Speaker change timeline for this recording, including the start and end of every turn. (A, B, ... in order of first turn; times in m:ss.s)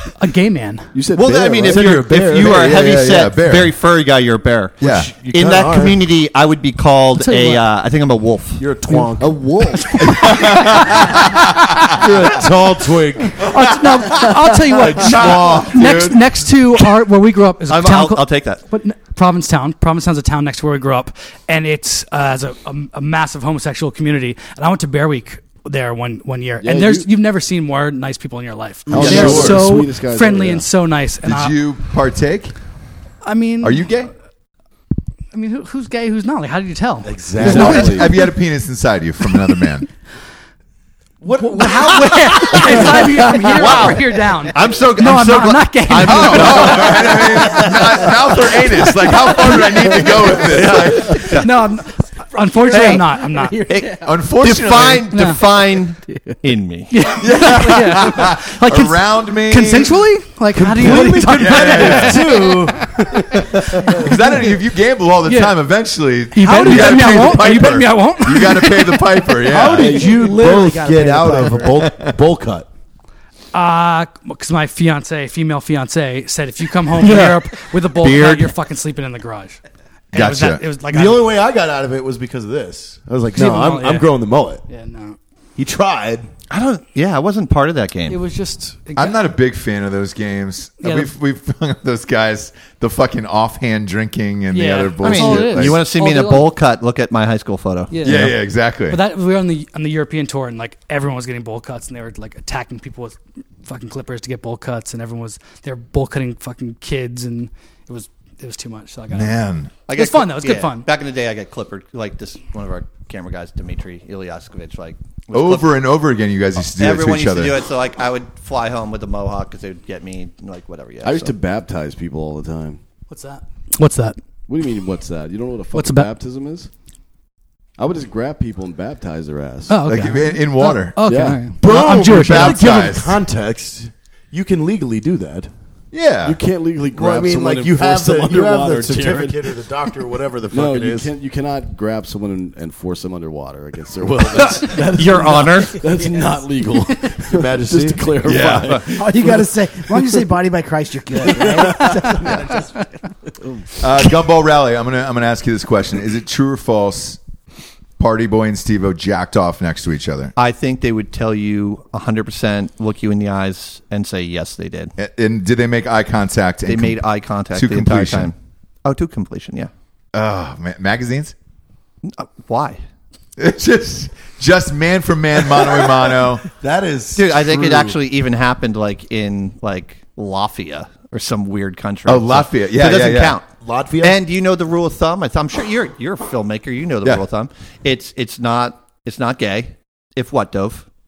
0:00.1-0:00.9 A
0:00.9-0:02.1 B
0:01.1-0:08.6 C
0:01.6-0:02.8 D
0:02.0-0:03.7 E
0:04.8-0:06.0 D
0:04.8-0:05.1 E
0:07.1-0:07.7 A
0:08.6-0:09.9 D
0:09.2-0:09.9 B
0:09.9-0:11.1 A
0:10.0-0:12.1 E
0:11.9-0:13.5 D
0:13.4-0:31.6 A
0:14.8-0:16.3 E
0:17.7-0:18.6 C
0:26.6-0:27.1 B
0:28.9-0:30.7 B
0:28.9-0:29.6 E
0:31.2-0:32.5 E
0:33.2-0:34.0 A
0:33.6-0:34.1 E
0:35.3-0:38.3 A
0:37.0-0:38.0 D
0:37.4-0:38.0 B
0:37.4-0:39.9 E
0:41.2-0:44.1 D
0:41.3-0:48.0 A
0:41.9-0:48.1 C
0:46.0-0:51.4 E
0:50.4-0:51.5 C
0:51.0-0:53.7 A
0:52.7-0:53.0 C
0:52.7-0:54.1 F
0:53.7-0:56.9 C
0:53.9-0:55.1 E
0:55.1-0:55.4 A
0:56.9-1:02.9 A
0:57.2-1:00.0 E
1:00.5-1:04.2 D
1:00.8-1:02.3 E
1:03.9-1:10.0 E
1:05.2-1:05.6 A
1:06.3-1:09.4 A
1:09.5-1:11.9 F
1:09.6-1:12.7 D
1:11.8-1:12.1 E
1:13.5-1:19.6 A
1:17.0-1:17.4 C
1:18.0-1:18.5 C
1:20.1-1:21.3 A
1:20.1-1:20.6 E
1:20.9-1:24.6 D
1:23.3-1:24.1 A
1:24.7-1:25.2 A
1:25.6-1:26.3 D
1:26.5-1:28.2 C
1:28.1-1:29.2 A
1:29.0-1:35.8 E
1:30.8-1:31.1 A
1:34.5-1:36.5 A
1:35.0-1:38.3 C
1:37.9-1:49.4 A
1:38.0-1:39.0 E
1:49.1-1:49.7 E
1:49.9-1:55.8 C
1:49.9-1:50.9 A
1:55.3-1:57.6 E
1:56.7-2:01.3 C
2:01.0-2:02.8 B
2:03.1-2:04.2 A
2:04.5-2:06.7 B
2:05.7-2:06.1 A
2:07.8-2:09.9 B
2:09.7-2:12.8 A
2:09.9-2:11.0 E
2:11.0-2:11.5 B
2:11.6-2:15.5 D
2:11.6-2:13.2 E
2:15.9-2:16.4 E
2:16.2-2:19.4 B
2:16.9-2:21.1 D
2:20.5-2:29.4 B
2:24.7-2:25.8 C
2:27.2-2:29.4 D
2:28.2-2:28.9 E
2:28.9-2:32.6 F
2:31.8-2:32.7 A
2:33.8-2:37.2 E
2:38.0-2:40.3 E
2:40.4-2:44.9 C
2:45.0-2:48.3 E
2:46.7-2:49.7 C
2:50.1-2:51.3 E
2:52.0-2:52.8 C
2:53.4-2:56.4 E
2:56.5-2:58.0 D
2:57.1-3:03.5 C
3:02.0-3:03.4 E
3:03.6-3:04.2 D
3:04.0-3:10.9 C